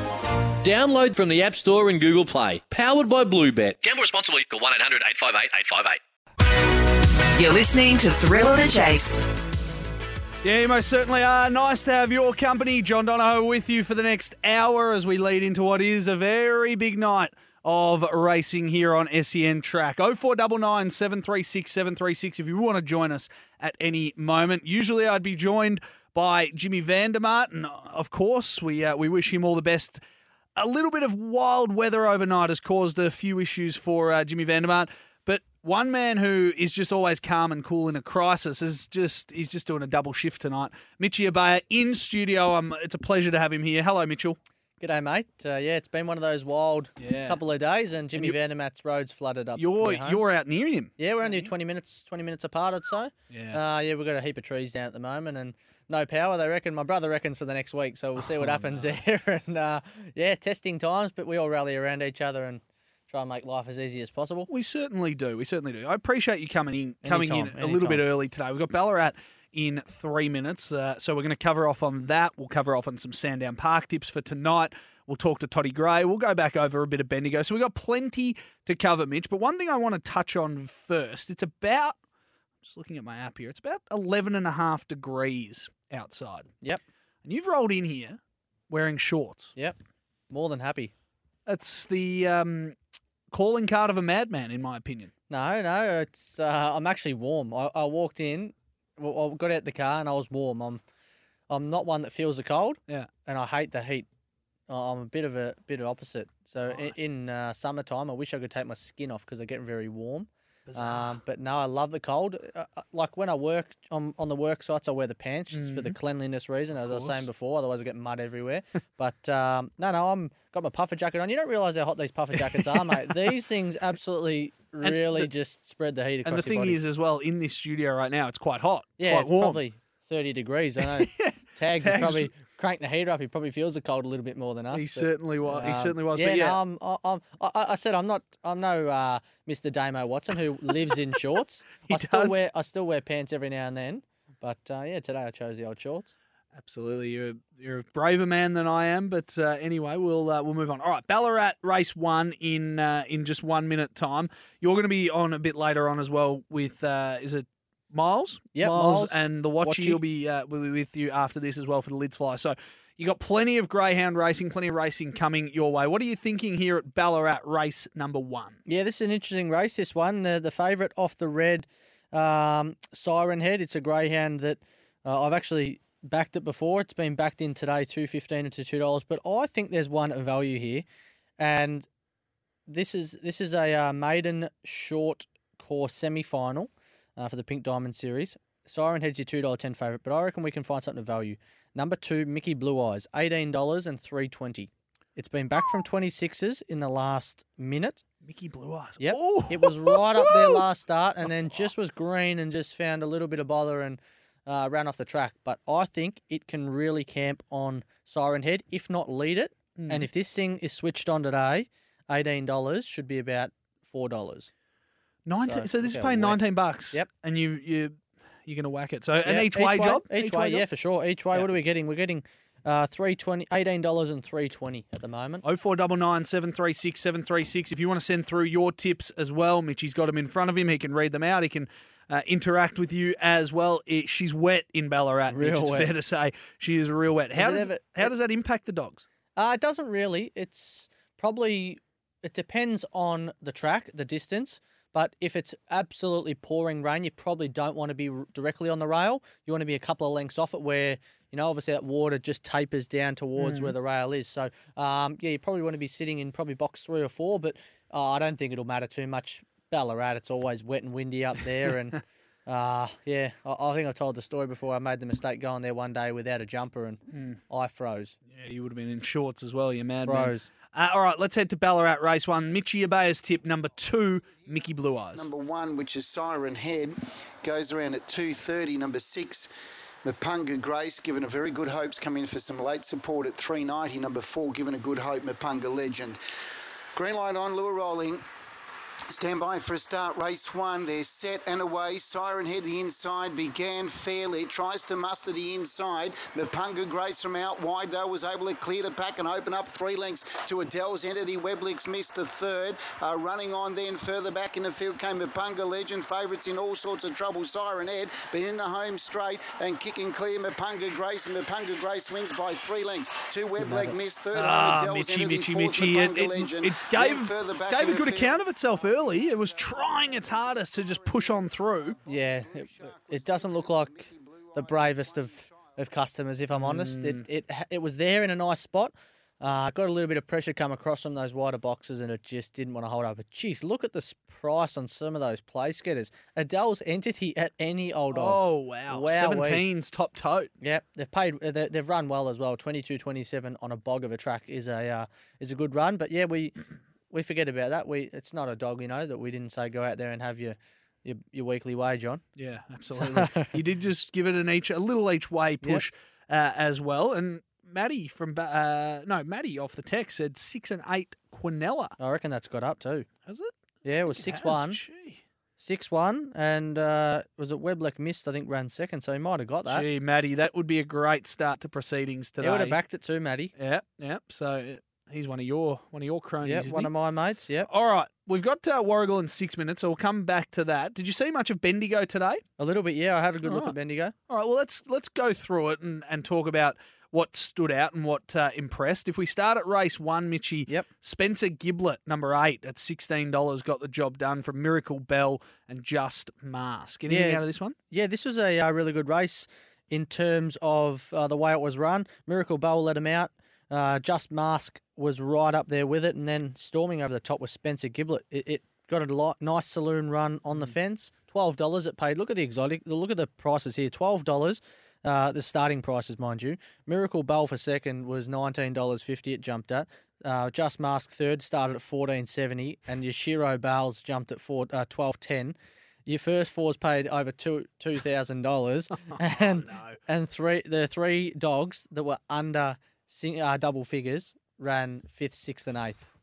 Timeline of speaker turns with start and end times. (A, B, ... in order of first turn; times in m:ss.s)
0:00.6-0:06.0 A
0:07.3-0:09.3 B
0:10.4-0:30.0 C
0:30.6-0:44.4 C
0:44.8-0:50.2 D
0:47.0-0:47.4 C
0:49.6-0:51.5 C
0:51.0-1:04.5 D
0:53.3-0:53.6 C
0:58.2-0:59.0 C
1:04.5-1:22.0 C
1:07.0-1:08.0 D
1:22.6-1:26.5 C
1:27.2-1:29.6 C
1:30.3-1:30.9 D
1:31.5-1:32.8 C
1:33.3-1:35.1 C
1:35.3-1:40.8 D
1:41.5-1:44.1 D
1:44.7-2:06.8 D
1:46.7-1:46.9 C
1:50.7-1:51.2 C
1:55.5-1:56.0 C
1:56.8-1:57.2 C
2:02.4-2:03.3 C
2:04.8-2:05.3 C
2:06.2-2:09.6 C
2:09.0-2:26.1 D
2:10.9-2:12.3 C
2:14.7-2:16.6 C
2:21.9-2:22.4 C
2:26.6-2:48.6 C
2:38.6-2:40.0 D
2:48.7-3:00.8 D
3:01.4-3:01.9 D
3:02.7-3:18.0 D
3:18.2-3:20.6 C
3:19.0-3:34.5 D
3:29.8-3:30.1 C
3:35.3-3:40.6 C
3:35.4-3:37.1 D
3:39.2-3:45.4 D
3:45.4-3:59.0 C
3:55.3-3:55.9 D
3:57.4-3:58.1 D
3:59.4-4:28.2 D
4:13.4-4:13.7 C
4:27.1-4:27.4 C
4:28.3-4:35.3 C
4:30.0-4:30.5 D
4:35.2-4:39.5 E
4:40.0-4:46.2 E
4:47.0-4:48.2 E
4:49.1-5:25.8 E
5:13.6-5:13.9 D
5:14.3-5:22.0 C
5:22.1-5:39.6 D
5:26.5-5:27.2 C
5:38.1-5:40.5 C
5:40.6-5:52.2 D
5:52.4-6:02.0 C
5:52.9-5:53.5 D
6:02.0-6:03.1 D
6:03.2-6:03.5 C
6:03.8-6:04.8 D
6:04.1-6:05.2 C
6:05.6-6:09.9 D
6:09.7-6:12.8 C
6:12.4-6:13.5 D
6:13.6-6:16.9 C
6:16.4-6:17.7 D
6:17.7-6:22.4 C
6:22.6-6:24.1 D
6:23.4-6:23.7 C
6:24.3-6:37.8 C
6:37.1-7:16.1 D
7:09.0-7:10.0 C